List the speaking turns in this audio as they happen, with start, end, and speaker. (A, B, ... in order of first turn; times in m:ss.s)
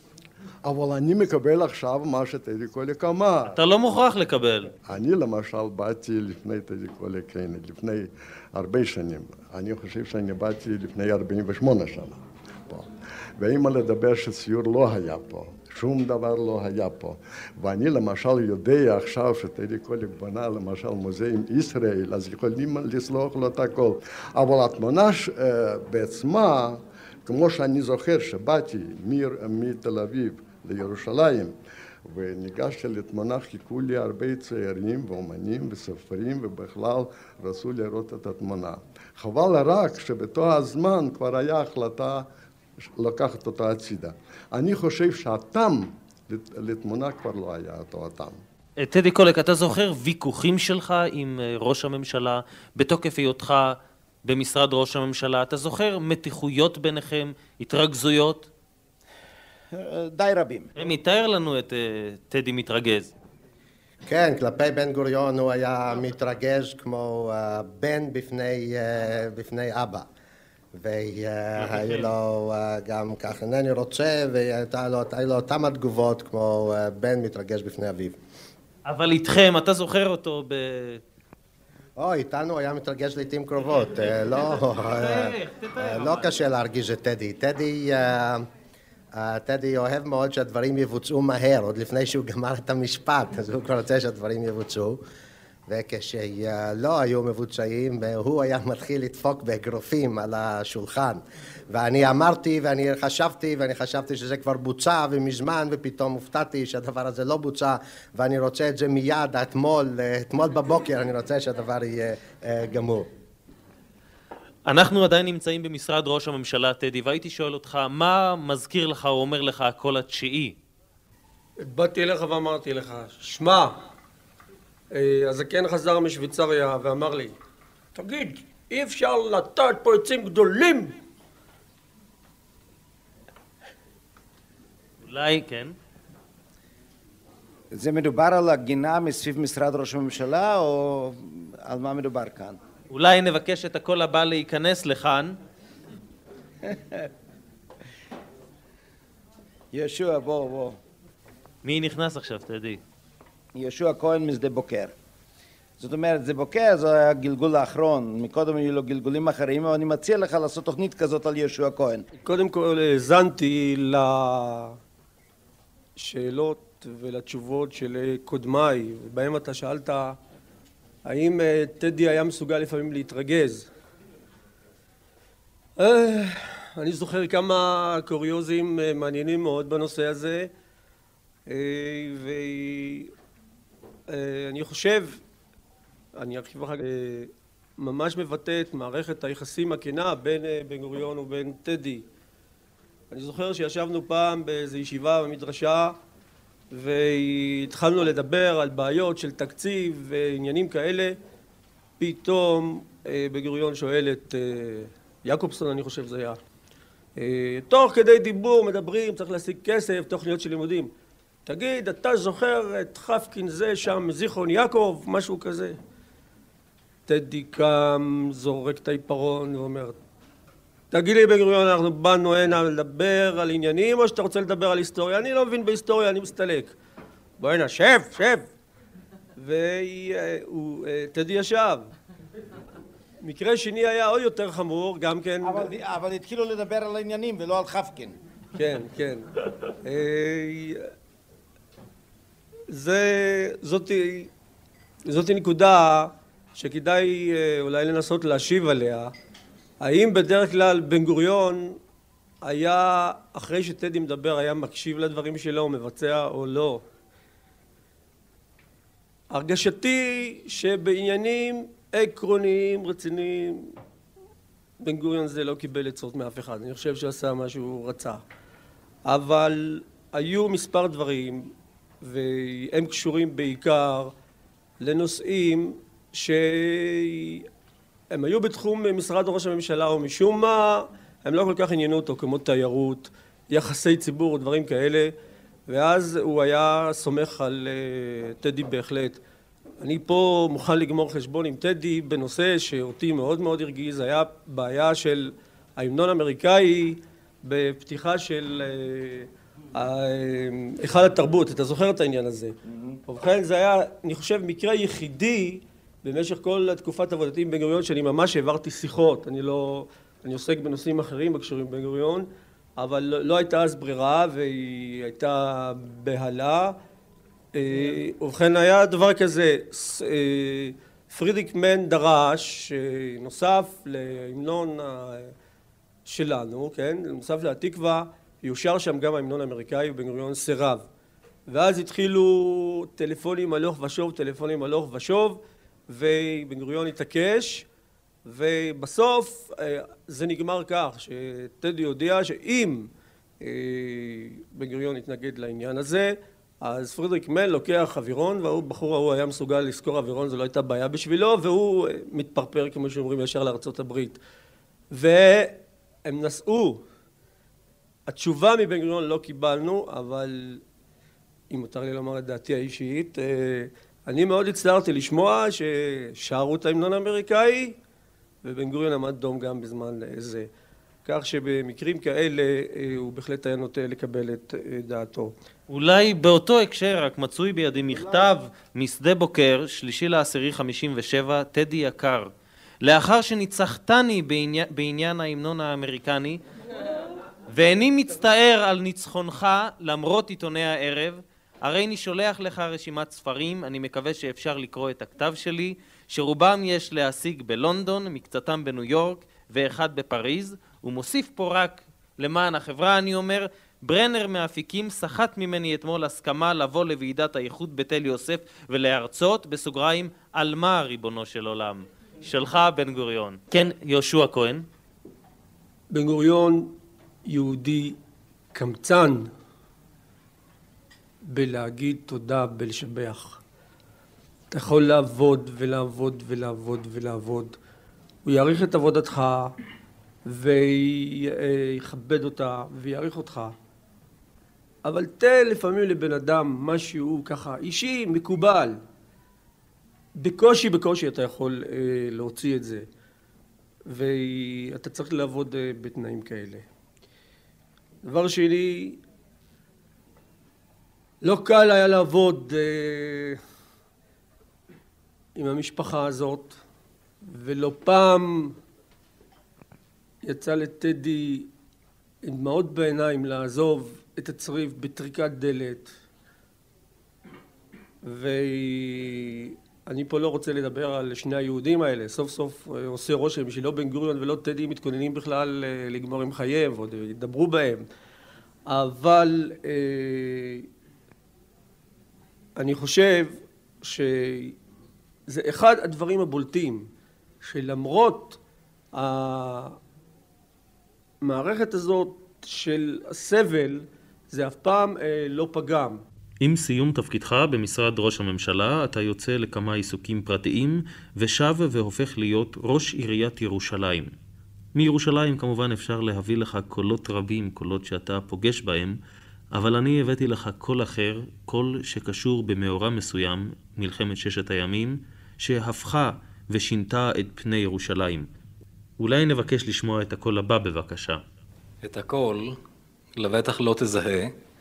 0:00.7-0:03.6 A
0:03.5-0:04.7 B
0:04.9-0:12.9 A
0:13.4-0:31.5 A
0:32.1-0:42.3 A
0:43.0-0:48.4 A
0:48.8-0:58.5 B
0:59.7-1:00.7 C
1:00.8-1:03.1 B
1:04.1-1:10.1 D
1:10.8-1:18.2 D
1:11.6-1:12.0 B
1:18.8-1:21.0 B
1:22.0-1:28.5 D
1:25.0-1:26.4 B
1:29.1-1:35.0 D
1:35.7-1:53.1 D
1:54.7-2:00.6 B
2:01.6-2:03.8 E
2:04.9-2:07.4 E
2:08.0-2:10.9 E
2:15.0-2:15.8 B
2:17.7-2:22.6 C
2:22.9-2:25.4 B
2:26.6-2:27.1 C
2:29.7-2:30.8 C
2:31.6-2:32.8 B
2:33.6-2:34.9 C
2:35.8-2:42.0 C
2:42.1-2:44.8 E
2:46.0-2:50.2 E
2:51.0-2:53.7 E
2:55.8-3:00.5 E
3:01.5-3:03.1 E
3:04.1-3:05.2 E
3:06.2-3:12.0 E
3:13.1-3:16.0 E
3:16.7-3:21.2 E
3:22.0-3:26.4 E
3:27.2-3:30.9 E
3:31.5-3:35.8 E
3:37.1-3:40.0 E
3:40.9-3:46.7 E
3:47.4-3:48.5 E
3:49.4-3:51.9 E
3:53.2-3:55.7 E
3:55.4-3:58.2 C
3:58.6-3:59.2 E
3:59.8-4:00.9 E
4:02.7-4:04.3 E
4:05.1-4:09.1 E
4:09.8-4:11.8 E
4:12.4-4:16.8 E
4:19.3-4:23.7 E
4:24.8-4:28.2 E
4:29.1-4:31.5 E
4:32.0-4:34.1 E
4:34.8-4:37.5 E
4:38.1-4:45.1 E
4:45.7-4:49.2 E
4:49.8-5:02.6 E
5:02.7-5:03.0 C
5:03.1-5:16.8 E
5:17.6-5:25.3 E
5:26.1-5:30.9 E
5:31.5-5:37.7 E
5:38.3-5:42.9 E
5:43.4-5:54.2 E
5:54.9-5:56.8 E
5:58.1-6:00.6 E
6:01.5-6:07.8 E
6:08.4-6:10.5 E
6:11.0-6:15.3 E
6:15.7-6:22.3 B
6:22.8-6:26.4 B
6:27.5-6:54.6 B
6:55.9-6:56.7 E
6:57.3-6:58.0 E
6:58.5-6:59.3 E
7:01.3-7:03.4 E
7:04.5-7:07.6 E
7:08.2-7:09.5 E
7:10.3-7:13.5 E
7:14.8-7:18.8 E
7:20.2-7:22.8 E
7:23.9-7:26.6 E
7:28.0-7:29.0 E
7:31.2-7:33.4 E
7:35.4-7:36.6 E
7:37.3-7:38.6 E
7:40.2-7:41.5 E
7:42.2-7:45.9 E
7:48.0-7:57.8 E
7:58.7-8:00.7 E
8:02.6-8:04.6 E
8:05.3-8:06.9 E
8:07.4-8:08.4 E
8:08.9-8:09.8 E
8:11.2-8:16.0 E
8:16.4-8:24.1 B
8:24.8-8:29.0 B
8:29.5-8:38.3 B
8:39.0-8:41.2 B
8:41.8-8:42.6 F
8:43.2-8:44.4 F